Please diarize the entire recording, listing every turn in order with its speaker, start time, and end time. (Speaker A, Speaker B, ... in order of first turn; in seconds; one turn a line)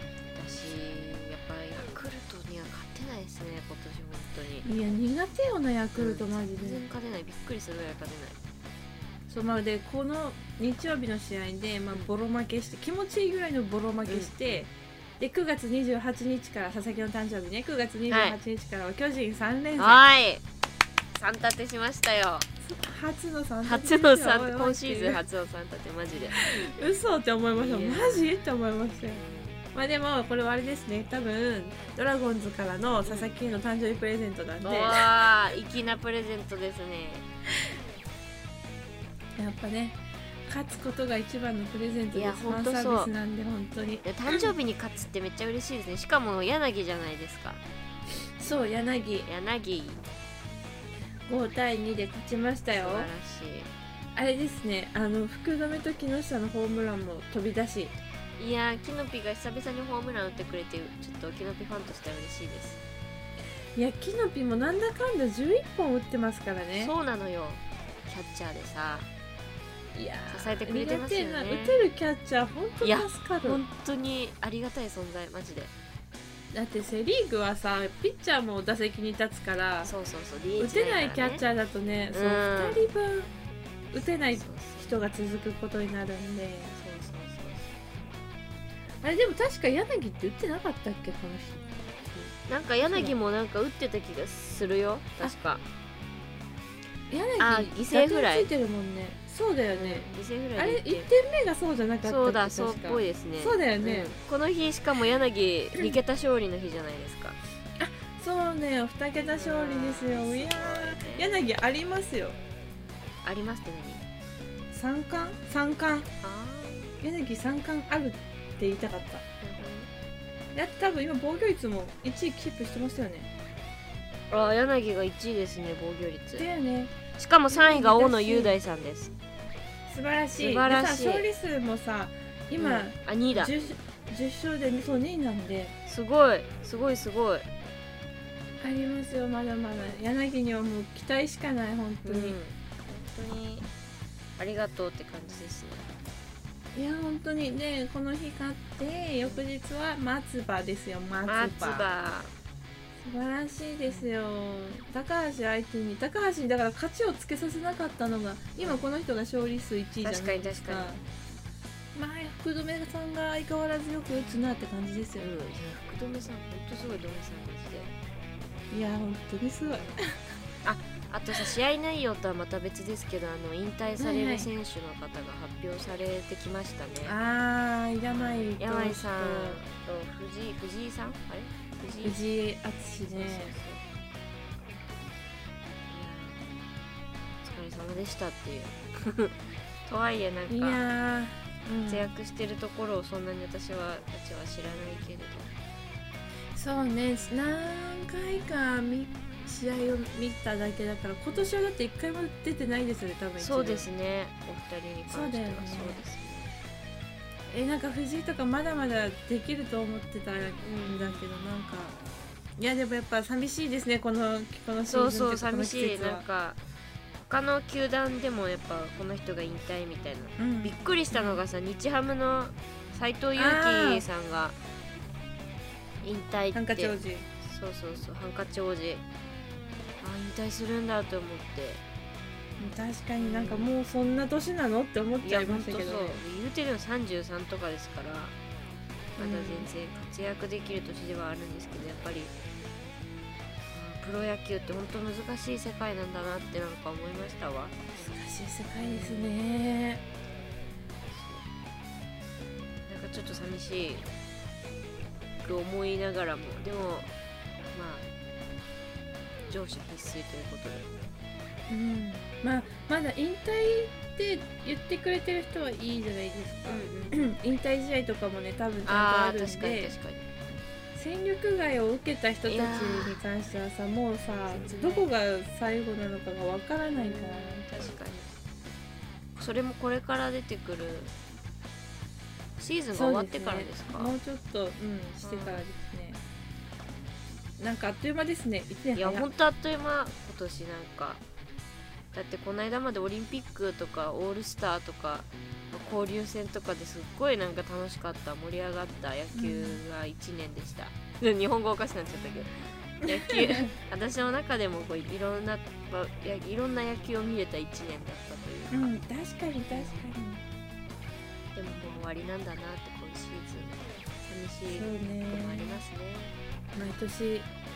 Speaker A: 0.3-4.7
Speaker B: 4.6-6.8
Speaker A: 6.0-8.4
Speaker B: 9.3-20.0
Speaker A: 14.1-14.7
Speaker A: 18.1-18.4
Speaker A: 19.8-20.4
Speaker A: 21.1-22.5
Speaker B: 22.6-25.2
Speaker A: 23.6-26.6
Speaker B: 26.3-35.1
Speaker A: 27.5-28.4
Speaker A: 29.1-29.6
Speaker A: 34.6-37.2
Speaker B: 39.4-44.5
Speaker A: 42.1-43.1
Speaker A: 44.0-47.6
Speaker B: 48.4-49.3
Speaker A: 49.2-50.0
Speaker B: 51.3-53.1
Speaker A: 52.7-53.7
Speaker B: 54.1-57.9
Speaker A: 58.4-62.8
Speaker B: 63.7-66.9
Speaker A: 66.8-69.1
Speaker B: 69.9-73.6
Speaker A: 70.3-71.8
Speaker A: 72.8-75.7
Speaker B: 76.5-79.9
Speaker A: 79.8-81.4
Speaker B: 80.6-83.3
Speaker A: 82.1-82.8
Speaker B: 83.9-86.7
Speaker A: 84.0-84.9
Speaker A: 86.7-87.7
Speaker B: 89.0-93.1
Speaker A: 92.5-95.6
Speaker B: 97.1-104.1
Speaker A: 97.4-98.5
Speaker A: 99.7-101.1
Speaker A: 102.0-107.4
Speaker B: 107.8-112.4
Speaker A: 109.3-111.3
Speaker A: 113.2-114.0
Speaker B: 114.7-116.1
Speaker A: 116.2-117.0
Speaker B: 117.0-119.2
Speaker A: 119.4-119.9
Speaker B: 120.5-123.3
Speaker A: 124.3-126.5
Speaker B: 126.4-126.9
Speaker A: 127.2-129.1
Speaker B: 127.5-128.6
Speaker B: 129.9-135.7
Speaker A: 130.3-131.3
Speaker A: 132.6-133.7
Speaker A: 135.9-137.4
Speaker B: 138.6-142.4
Speaker A: 142.0-143.7
Speaker A: 144.4-145.9
Speaker B: 146.7-151.8
Speaker A: 151.3-152.3
Speaker B: 153.0-161.0
Speaker A: 153.9-154.1
Speaker A: 158.6-158.8
Speaker A: 160.0-160.9
Speaker B: 161.9-165.3
Speaker A: 165.2-167.9
Speaker B: 168.7-170.2
Speaker A: 169.6-169.9
Speaker A: 170.6-177.1
Speaker B: 174.0-174.5
Speaker B: 177.0-179.6
Speaker A: 178.1-182.2
Speaker B: 182.0-183.6
Speaker A: 183.1-183.8
Speaker A: 185.9-186.4
Speaker A: 187.4-190.8
Speaker B: 190.5-192.1
Speaker A: 191.9-195.5
Speaker B: 196.5-203.9
Speaker A: 203.4-206.5
Speaker B: 205.1-206.0
Speaker B: 207.5-211.9
Speaker A: 210.6-211.2
Speaker B: 212.6-216.2
Speaker A: 214.9-216.6
Speaker A: 217.3-224.6
Speaker B: 220.4-221.4
Speaker B: 223.3-224.0
Speaker A: 226.0-229.0
Speaker B: 226.5-227.3
Speaker A: 230.0-231.8
Speaker B: 232.6-236.2
Speaker A: 233.2-233.7
Speaker A: 235.2-238.3
Speaker A: 239.2-242.3
Speaker B: 239.2-239.7
Speaker A: 243.7-247.8
Speaker B: 248.0-250.0
Speaker A: 248.8-249.3
Speaker A: 251.0-251.4
Speaker A: 252.8-254.1
Speaker A: 255.4-257.1
Speaker A: 257.7-258.0
Speaker A: 259.5-260.9
Speaker B: 261.7-270.0
Speaker A: 266.7-267.3
Speaker A: 268.9-270.3
Speaker B: 270.9-277.7
Speaker A: 272.5-273.2
Speaker A: 274.2-275.1
Speaker A: 276.9-278.3
Speaker A: 279.4-281.1
Speaker A: 282.6-284.1
Speaker B: 282.9-286.2
Speaker A: 285.2-285.6
Speaker B: 287.6-289.2
Speaker A: 288.9-291.2
Speaker A: 292.1-302.5
Speaker B: 299.3-299.8
Speaker A: 303.0-308.9
Speaker B: 303.0-303.7
Speaker B: 308.7-310.4
Speaker A: 309.7-310.1
Speaker A: 311.5-316.3
Speaker B: 314.7-315.8
Speaker B: 316.7-317.5